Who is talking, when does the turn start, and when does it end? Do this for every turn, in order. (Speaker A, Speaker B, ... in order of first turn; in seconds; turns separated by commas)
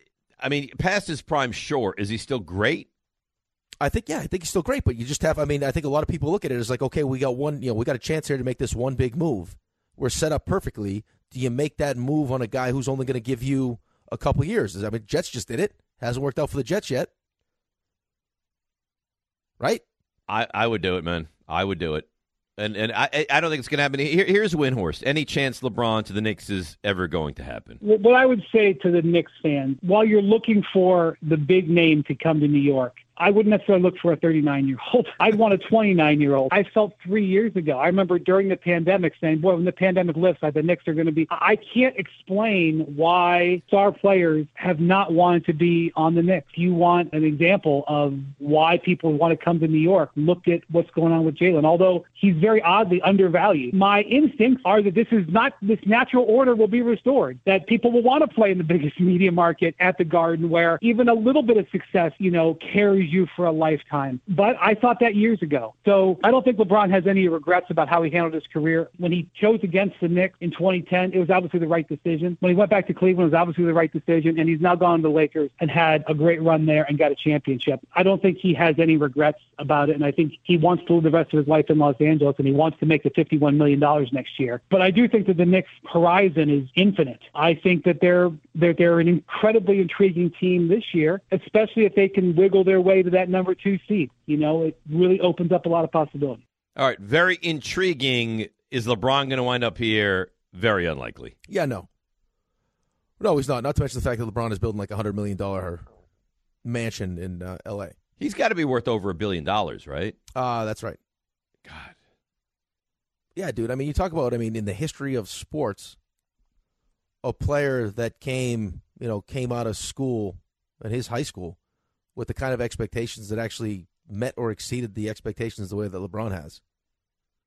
Speaker A: 0.4-2.9, Speaker B: 3.8-17.1, Speaker A: 20.3-22.1, Speaker A: 22.6-27.8, Speaker C: 27.8-96.4, Speaker A: 96.8-101.3, Speaker B: 101.5-101.9, Speaker B: 103.2-105.8, Speaker B: 106.6-108.0, Speaker A: 108.2-110.2, Speaker B: 110.3-111.0, Speaker A: 111.7-111.9, Speaker B: 113.3-116.0, Speaker B: 117.2-121.6, Speaker B: 122.2-126.6